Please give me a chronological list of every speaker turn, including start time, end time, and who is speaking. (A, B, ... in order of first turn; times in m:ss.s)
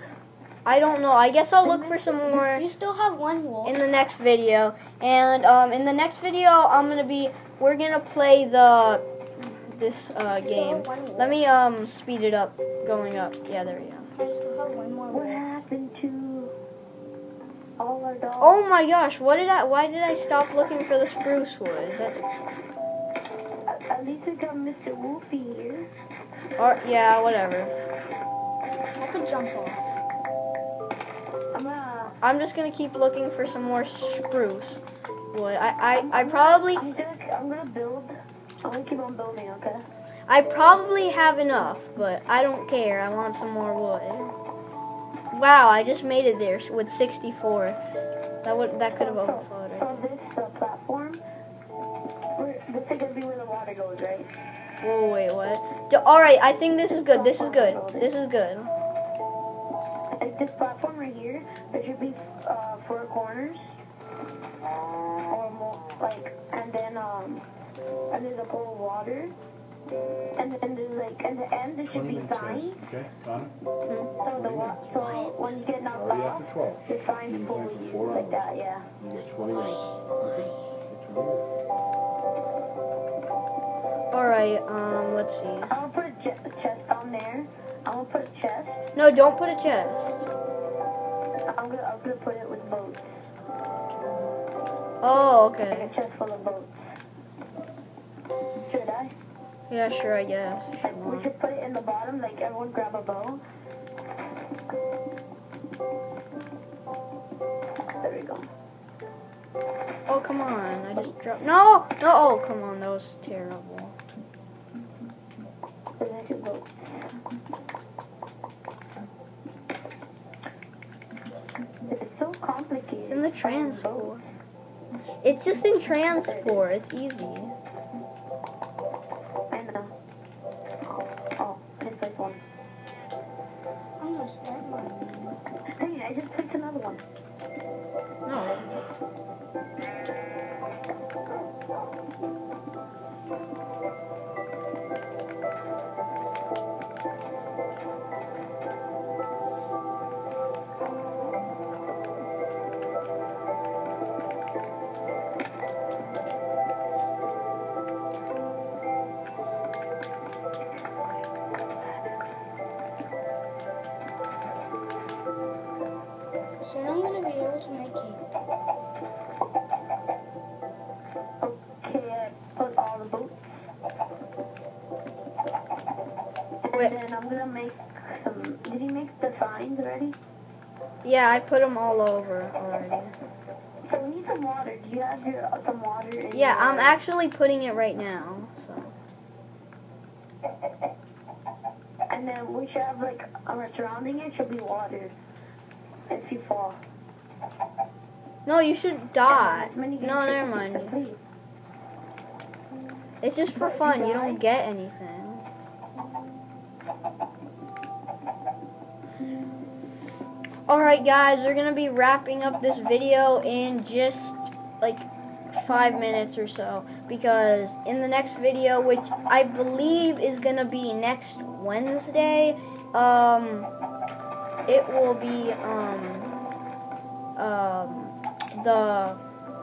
0:00.6-0:02.7 A
0:01.6-0:02.5 B
0:02.5-0:03.8 C
0:03.6-0:14.1 A
0:10.4-0:11.4 C
0:14.1-0:15.4 C
0:15.1-0:16.5 B
0:17.8-0:18.6 B
0:18.4-0:22.2 A
0:23.7-0:25.9 B
0:26.6-0:27.8 A
0:29.0-0:29.8 C
0:31.5-0:32.2 B
0:32.2-0:34.8 A
0:35.3-0:36.8 A
0:36.0-0:39.9 B
0:40.3-0:44.4 A
0:45.3-0:47.8 A
0:48.4-0:49.9 A
0:48.9-0:51.2 B
0:52.4-0:54.3 B
0:54.8-0:58.7 A
0:57.1-0:58.1 B
1:00.2-1:03.6 B
1:05.3-1:07.4 B
1:08.1-1:09.4 B
1:10.4-1:12.8 B
1:11.9-1:13.5 D
1:14.2-1:18.9 B
1:14.4-1:15.0 D
1:15.0-1:15.6 C
1:15.9-1:18.5 D
1:19.0-1:19.6 D
1:19.6-1:20.7 C
1:20.9-1:21.5 D
1:24.1-1:25.7 A
1:25.7-1:28.8 B
1:29.0-1:30.3 A
1:31.5-1:33.1 B
1:35.0-1:35.9 A
1:35.7-1:36.8 B
1:38.6-1:39.1 B
1:39.7-1:41.3 A
1:40.8-1:43.4 B
1:48.0-1:48.5 B
1:50.1-1:54.0 A
1:56.0-1:57.0 B
2:01.9-2:04.2 B
2:03.0-2:04.2 A
2:05.2-2:07.6 A
2:06.1-2:06.7 B
2:09.5-2:09.9 B
2:10.9-2:12.4 B
2:14.0-2:15.4 C
2:15.7-2:17.0 B
2:18.3-2:18.8 A
2:46.6-2:48.2 C
2:51.4-2:53.5 B
2:56.6-3:00.2 B
3:01.0-3:03.1 A
3:03.8-3:07.0 B
3:06.3-3:08.9 A
3:12.1-3:15.2 B
3:16.1-3:16.8 B
3:18.4-3:21.0 A
3:19.3-3:21.2 B
3:23.2-3:25.5 A
3:23.5-3:24.4 B
3:30.7-3:43.7 A
3:44.7-3:46.4 A
3:47.4-3:49.2 A